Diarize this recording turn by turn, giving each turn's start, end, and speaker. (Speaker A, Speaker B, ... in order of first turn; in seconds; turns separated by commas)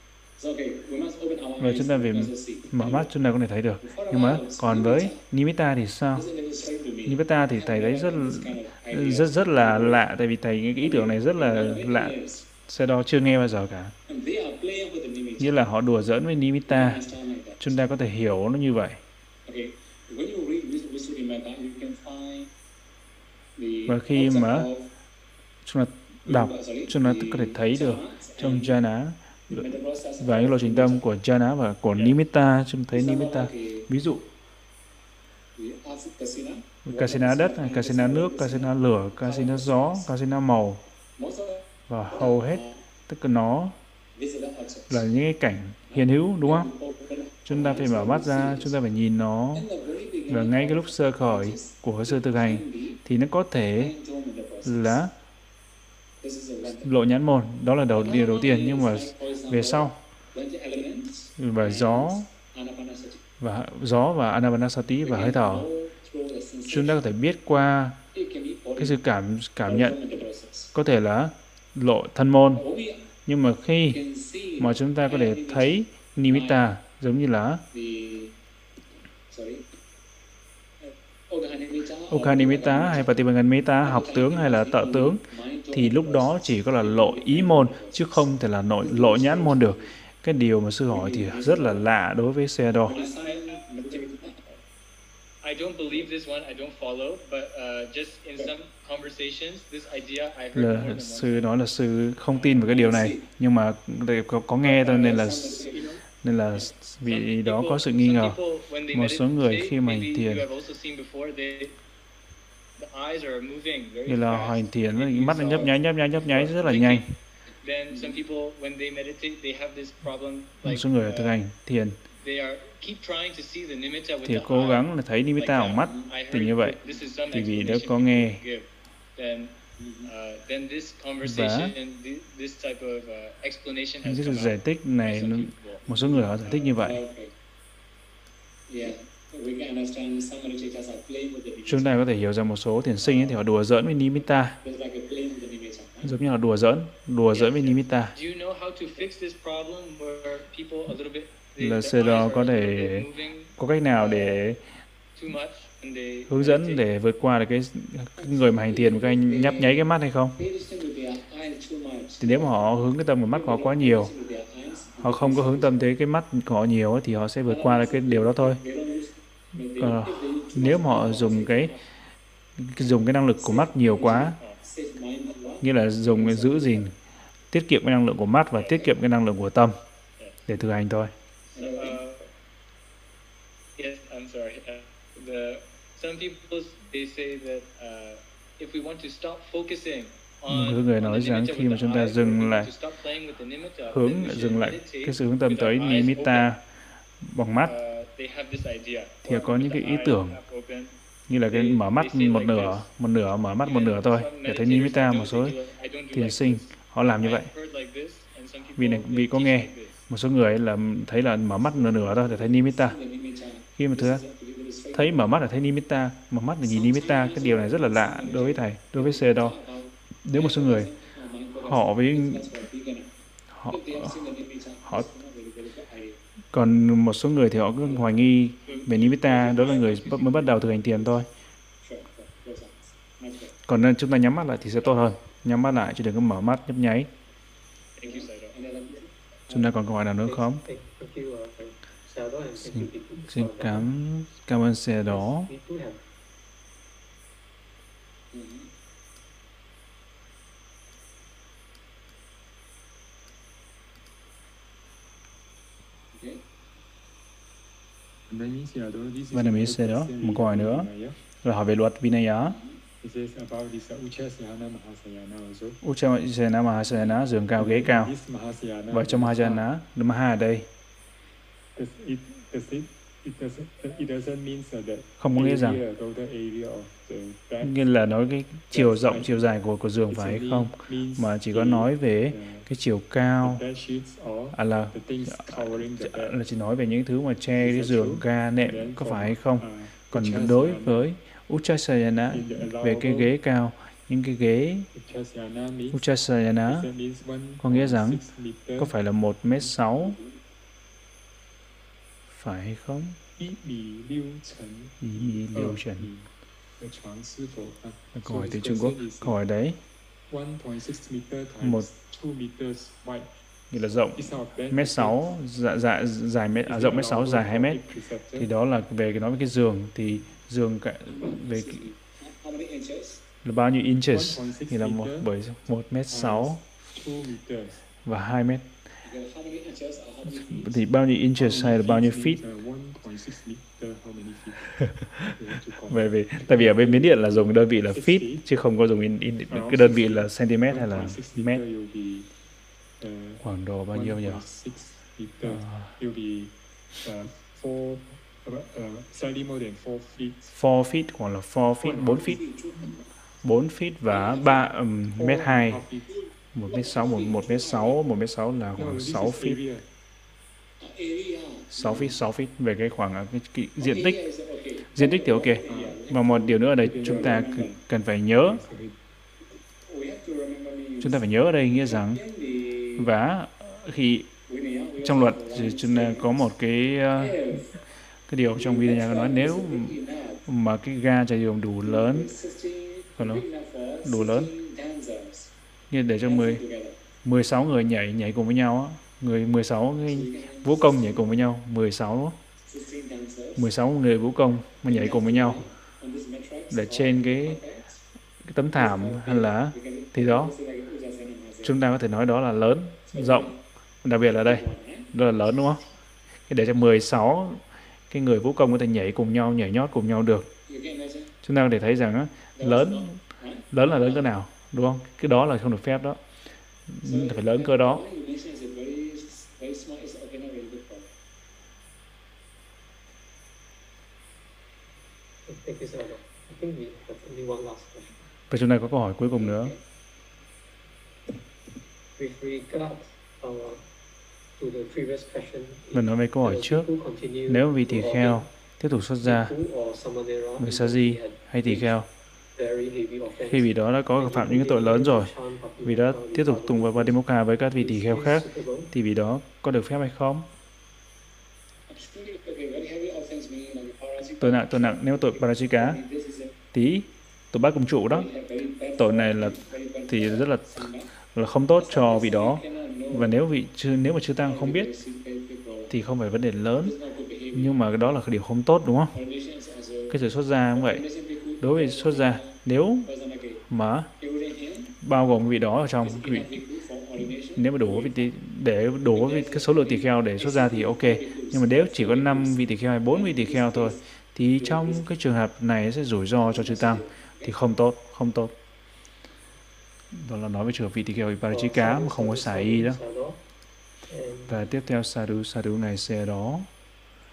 Speaker A: 0.4-3.1, Speaker B: 1.6-6.2, Speaker A: 3.8-5.2, Speaker A: 6.1-10.0, Speaker B: 7.0-13.9, Speaker A: 10.8-12.5, Speaker A: 14.1-15.6, Speaker B: 15.4-17.0, Speaker A: 16.7-17.7, Speaker B: 17.6-19.0, Speaker A: 19.4-22.5, Speaker A: 23.6-24.9, Speaker B: 23.9-24.7, Speaker B: 25.6-29.7, Speaker A: 26.2-28.8, Speaker A: 29.5-31.1, Speaker B: 30.2-34.2, Speaker A: 32.9-33.9, Speaker A: 35.5-40.1, Speaker B: 36.8-40.8, Speaker A: 41.1-42.8, Speaker B: 41.9-43.7, Speaker A: 44.1-45.0, Speaker B: 44.9-46.7, Speaker A: 45.9-48.8, Speaker B: 47.5-49.6, Speaker A: 49.5-53.0, Speaker B: 50.3-53.9, Speaker A: 53.7-55.0, Speaker B: 54.6-55.1, Speaker A: 56.2-56.9, Speaker B: 56.6-60.0, Speaker A: 57.9-63.2, Speaker B: 61.4-62.3, Speaker B: 63.4-65.7, Speaker A: 65.0-67.0, Speaker B: 66.7-68.0, Speaker A: 68.1-69.0, Speaker B: 68.8-70.0, Speaker A: 69.6-70.7, Speaker B: 70.7-72.6, Speaker A: 72.5-73.1, Speaker B: 73.2-74.0, Speaker A: 73.9-76.6, Speaker B: 74.6-77.6, Speaker A: 77.7-78.3, Speaker A: 79.3-79.6, Speaker A: 80.8-83.2, Speaker B: 82.1-92.9, Speaker A: 83.8-88.3, Speaker A: 88.8-90.0, Speaker A: 90.9-91.8, Speaker A: 92.8-94.4, Speaker C: 92.9-94.6, Speaker C: 95.4-101.5, Speaker B: 100.5-105.6, Speaker A: 102.5-103.2, Speaker A: 104.6-105.9, Speaker C: 105.6-106.0, Speaker B: 106.2-108.4, Speaker C: 107.0-111.7, Speaker B: 108.9-110.5, Speaker C: 112.8-114.6, Speaker B: 114.0-117.0, Speaker A: 115.0-115.7, Speaker A: 116.2-116.9, Speaker C: 116.6-117.0, Speaker C: 117.6-121.3, Speaker A: 117.9-118.2, Speaker B: 120.6-122.0, Speaker C: 122.2-135.9, Speaker B: 124.2-126.8, Speaker A: 125.5-126.1, Speaker B: 127.3-128.4, Speaker A: 129.8-130.1, Speaker B: 131.2-131.7, Speaker B: 134.0-137.0, Speaker A: 135.9-137.3, Speaker A: 138.7-141.9, Speaker B: 141.7-144.6, Speaker A: 143.0-143.4, Speaker A: 144.6-146.1, Speaker B: 146.0-148.2, Speaker C: 147.3-154.3, Speaker B: 151.6-154.6, Speaker C: 155.1-156.8, Speaker B: 156.3-160.4, Speaker A: 158.2-165.9, Speaker B: 162.2-164.1, Speaker B: 165.0-168.6, Speaker A: 167.4-171.8, Speaker B: 169.8-171.7, Speaker B: 172.6-174.4, Speaker A: 173.4-176.8, Speaker C: 174.0-174.6, Speaker B: 175.6-176.9, Speaker B: 177.5-179.8, Speaker C: 178.6-178.9, Speaker B: 180.5-181.1, Speaker A: 181.5-182.0, Speaker C: 181.6-182.3, Speaker C: 183.8-196.5, Speaker B: 190.5-192.7, Speaker B: 193.9-196.6, Speaker B: 197.2-197.7, Speaker C: 197.6-200.9, Speaker B: 199.2-200.4, Speaker B: 201.3-205.5, Speaker C: 201.5-202.8, Speaker C: 203.6-210.0, Speaker B: 206.1-207.5, Speaker B: 208.8-213.0, Speaker A: 211.5-215.4, Speaker B: 213.8-214.2, Speaker B: 214.9-219.6, Speaker A: 216.6-223.1, Speaker B: 220.2-220.9, Speaker B: 221.6-222.5, Speaker B: 223.5-224.2, Speaker A: 223.7-226.2, Speaker B: 226.5-231.3, Speaker A: 227.8-231.0, Speaker C: 228.7-228.9, Speaker A: 231.8-233.6, Speaker B: 233.7-237.1, Speaker C: 238.0-238.5, Speaker A: 238.0-239.8, Speaker B: 239.5-240.6, Speaker D: 240.2-243.9, Speaker B: 242.6-245.5, Speaker D: 245.0-246.0, Speaker A: 248.3-248.7, Speaker A: 256.1-256.4, Speaker E: 258.3-261.1, Speaker B: 259.3-260.9, Speaker B: 261.4-262.6, Speaker A: 262.4-262.8, Speaker E: 263.0-265.8, Speaker B: 265.8-268.1, Speaker E: 267.6-269.7, Speaker B: 268.9-270.7, Speaker E: 271.7-277.8, Speaker B: 275.2-275.8, Speaker B: 277.6-283.6, Speaker E: 278.7-279.5, Speaker E: 280.1-282.7, Speaker E: 283.4-286.4, Speaker B: 284.5-294.9, Speaker E: 287.6-291.1, Speaker E: 292.3-293.3, Speaker E: 294.9-296.0, Speaker B: 295.9-296.9, Speaker E: 296.6-298.9, Speaker B: 297.6-298.2, Speaker B: 298.8-300.2, Speaker E: 299.6-300.4, Speaker B: 302.3-303.2, Speaker E: 303.4-309.4, Speaker B: 305.0-306.1, Speaker B: 308.1-309.8, Speaker E: 310.3-313.3, Speaker B: 311.6-311.9, Speaker B: 313.7-321.9, Speaker E: 314.1-315.4, Speaker E: 316.6-318.5, Speaker A: 321.1-323.2, Speaker B: 323.4-326.6, Speaker E: 324.1-325.3, Speaker E: 326.1-327.8, Speaker B: 328.0-328.6, Speaker A: 329.0-330.8, Speaker B: 330.3-332.4, Speaker E: 331.4-334.8, Speaker B: 334.8-341.6, Speaker E: 335.3-338.4, Speaker E: 339.5-342.3, Speaker E: 343.0-350.5, Speaker B: 343.4-344.4, Speaker B: 345.4-345.9, Speaker B: 350.5-352.4, Speaker E: 351.8-352.4, Speaker A: 351.8-353.1, Speaker B: 353.4-355.8, Speaker A: 354.1-354.7, Speaker E: 355.1-356.2, Speaker A: 356.1-358.0, Speaker B: 356.5-359.6, Speaker E: 358.8-359.8, Speaker A: 360.8-362.1, Speaker B: 361.7-364.2, Speaker A: 363.8-367.8, Speaker B: 364.9-368.6, Speaker E: 365.6-366.0, Speaker E: 366.8-367.8, Speaker E: 368.3-368.9, Speaker A: 369.8-373.1, Speaker B: 371.0-372.2, Speaker B: 373.0-374.3, Speaker A: 374.5-376.5, Speaker B: 375.0-377.4, Speaker A: 377.1-377.8, Speaker B: 378.3-382.3, Speaker A: 378.5-380.4, Speaker A: 381.8-385.5, Speaker B: 383.2-383.4, Speaker B: 384.0-384.5, Speaker B: 385.9-386.6, Speaker A: 386.1-387.0, Speaker B: 387.2-392.4, Speaker A: 390.0-391.4, Speaker A: 392.6-393.7, Speaker B: 393.6-395.6, Speaker A: 394.8-397.9, Speaker B: 396.7-397.6, Speaker B: 398.5-400.5, Speaker A: 398.7-401.8, Speaker B: 401.6-405.8, Speaker A: 403.1-403.6, Speaker A: 404.2-405.6, Speaker B: 406.5-410.5, Speaker A: 410.6-411.3, Speaker B: 411.4-413.2, Speaker A: 412.6-414.3, Speaker B: 413.7-416.2, Speaker B: 416.9-418.0, Speaker A: 417.0-421.1, Speaker D: 425.4-428.3, Speaker B: 428.5-429.7, Speaker A: 429.3-429.8, Speaker D: 432.2-433.9, Speaker D: 434.6-438.5, Speaker B: 435.9-436.9, Speaker B: 437.5-439.5, Speaker D: 439.2-441.9, Speaker B: 440.6-442.1, Speaker D: 442.6-447.2, Speaker B: 443.4-445.3, Speaker B: 445.8-450.5, Speaker D: 447.8-448.9, Speaker A: 451.9-456.6, Speaker B: 454.4-456.0, Speaker B: 456.7-458.3, Speaker A: 458.0-461.1, Speaker B: 459.0-460.8, Speaker B: 461.3-464.9, Speaker A: 461.8-463.4, Speaker A: 464.4-465.9, Speaker B: 465.9-466.9, Speaker A: 466.8-467.8, Speaker B: 467.5-469.1, Speaker A: 469.1-473.6, Speaker B: 470.1-471.1, Speaker B: 471.6-473.1, Speaker B: 473.7-474.1, Speaker A: 474.2-474.9, Speaker B: 475.0-476.5, Speaker A: 475.9-478.3, Speaker B: 477.6-488.5, Speaker A: 479.1-484.0, Speaker A: 484.5-485.1, Speaker A: 486.4-487.6, Speaker B: 490.1-493.0, Speaker D: 491.5-493.4, Speaker D: 494.1-494.6, Speaker B: 494.5-496.7